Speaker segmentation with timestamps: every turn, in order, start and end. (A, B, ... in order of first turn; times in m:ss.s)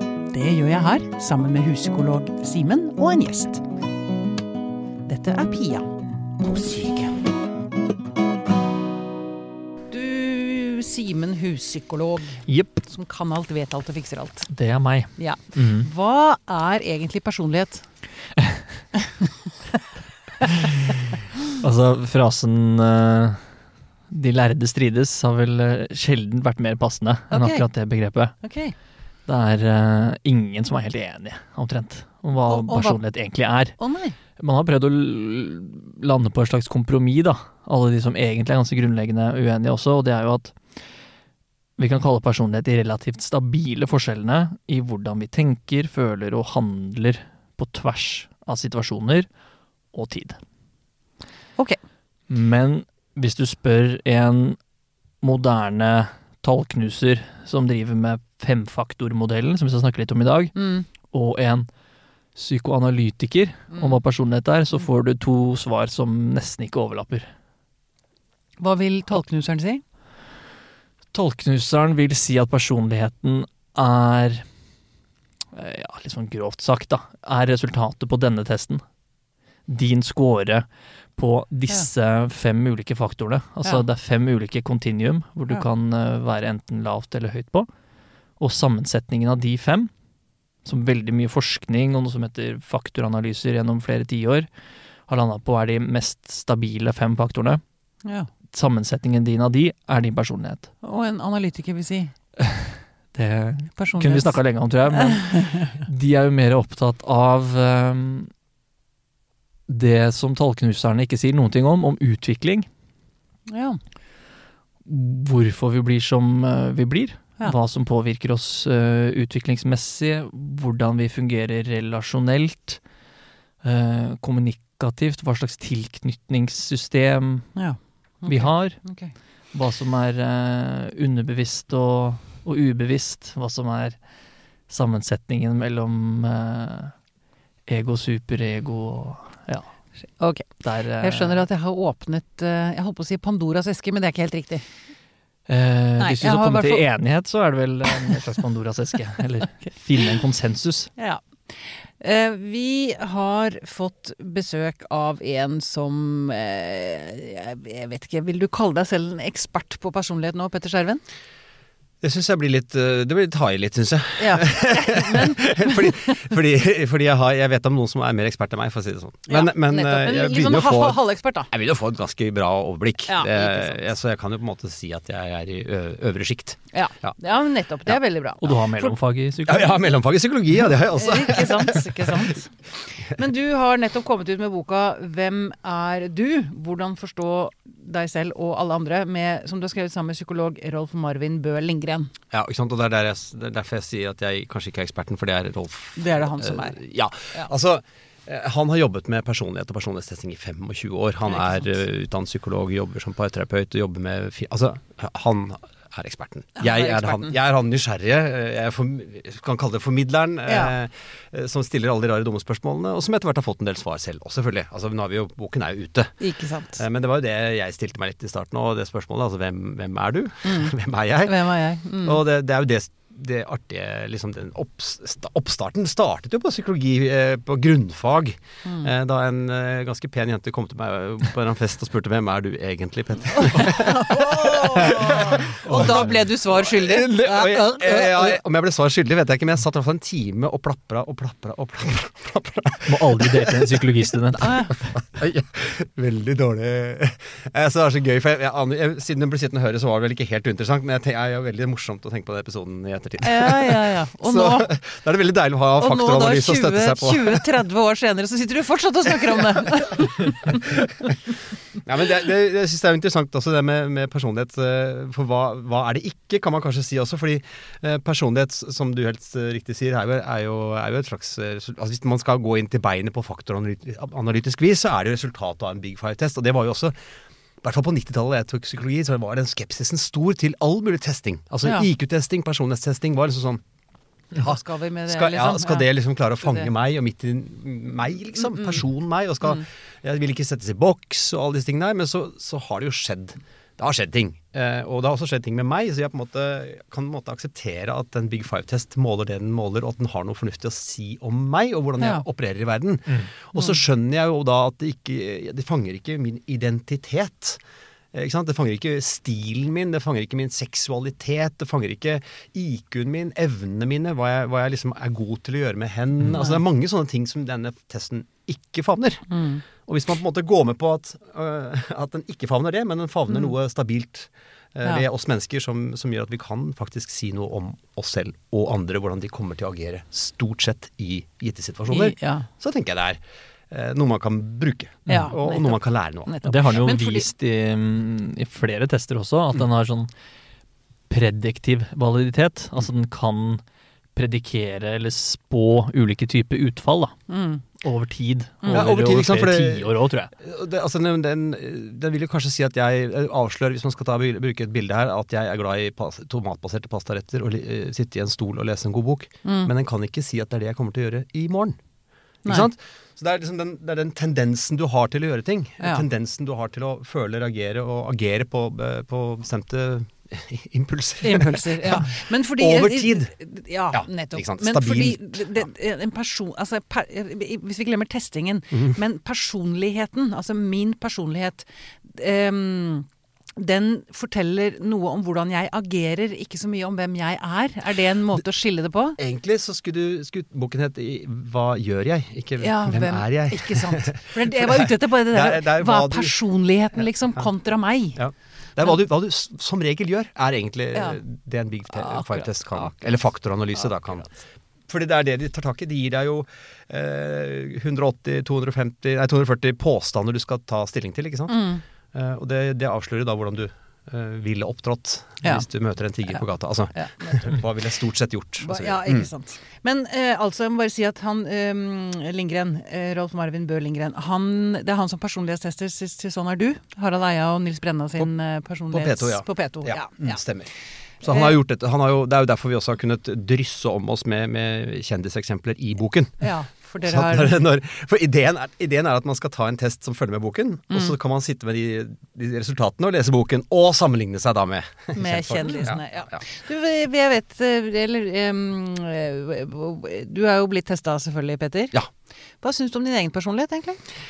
0:00.3-0:03.6 A
0:05.0-0:05.9 A
0:06.4-0:07.1 A
0:09.9-0:14.5 A
0:12.5-0:12.8 B
0:14.5-0:15.9 B
0:15.2-0:17.9 A
0:21.6-0:23.6 B
0:24.1-0:28.5 B
0:27.3-0:27.7 A
0:28.4-0:28.7 A
0:29.2-0:33.8 B
0:32.5-0:33.0 A
0:33.8-0:34.2 A
0:34.4-0:40.8 B
0:41.8-0:49.3 B
0:49.9-0:50.4 B
0:52.3-0:54.6 B
0:55.2-1:01.7 B
1:00.5-1:00.9 A
1:02.3-1:07.3 B
1:03.7-1:04.0 A
1:08.6-1:09.8 A
1:11.1-1:14.5 B
1:15.5-1:18.8 B
1:19.7-1:27.7 B
1:28.4-1:29.9 B
1:30.6-1:34.5 B
1:35.0-1:37.6 B
1:38.0-1:38.3 A
1:38.5-1:40.7 B
1:40.8-1:42.1 A
1:42.4-1:48.3 B
1:43.8-1:45.8 A
1:49.7-1:52.7 B
1:53.5-1:53.8 A
1:54.8-2:02.8 B
2:03.6-2:07.6 B
2:07.5-2:09.1 A
2:08.3-2:08.9 B
2:09.5-2:14.1 B
2:14.7-2:16.9 B
2:17.7-2:19.7 B
2:20.2-2:24.6 A
2:20.6-2:21.4 B
2:25.5-2:30.9 B
2:26.0-2:26.8 A
2:31.0-2:41.0 A
2:42.0-2:57.2 C
2:44.2-2:46.2 A
2:49.3-2:51.5 A
2:53.1-2:53.8 A
2:56.7-2:59.0 A
2:58.4-2:59.8 B
2:59.4-3:02.3 C
3:00.9-3:12.1 A
3:12.3-3:36.2 C
3:16.0-3:16.8 A
3:21.3-3:21.6 A
3:26.6-3:27.4 A
3:30.5-3:30.7 A
3:36.2-3:36.8 A
3:36.7-4:03.9 C
3:40.4-3:42.2 A
3:48.6-3:48.9 A
3:53.3-3:58.4 A
4:02.9-4:04.6 B
4:04.3-4:04.7 A
4:04.8-4:17.5 C
4:13.2-4:14.7 A
4:15.8-4:21.1 A
4:19.2-4:21.2 C
4:21.7-4:37.0 C
4:37.6-4:43.6 C
4:44.3-5:07.6 C
4:44.4-4:46.7 A
5:08.1-5:36.3 C
5:19.3-5:19.6 A
5:31.9-5:32.5 A
5:35.1-5:35.3 B
5:35.1-5:37.3 A
5:36.4-5:40.1 B
5:41.1-5:43.6 B
5:44.1-5:47.2 B
5:47.3-5:47.6 A
5:47.8-5:50.3 B
5:48.6-5:48.9 A
5:48.7-6:01.8 C
5:59.4-5:59.7 A
6:02.4-6:13.3 C
6:05.8-6:06.0 A
6:11.2-6:29.2 A
6:13.9-6:15.6 C
6:18.7-6:19.0 C
6:29.2-6:36.4 C
6:32.6-6:38.2 A
6:38.2-6:44.3 C
6:40.9-6:41.2 A
6:41.9-6:42.9 A
6:44.9-6:59.3 C
6:51.5-6:51.8 A
6:55.4-6:55.7 A
6:56.9-6:57.6 A
6:58.6-7:10.4 A
7:08.9-7:16.5 C
7:11.2-7:11.6 A
7:16.4-7:17.6 A
7:17.0-7:26.4 C
7:25.1-7:32.0 A
7:32.6-7:34.0 A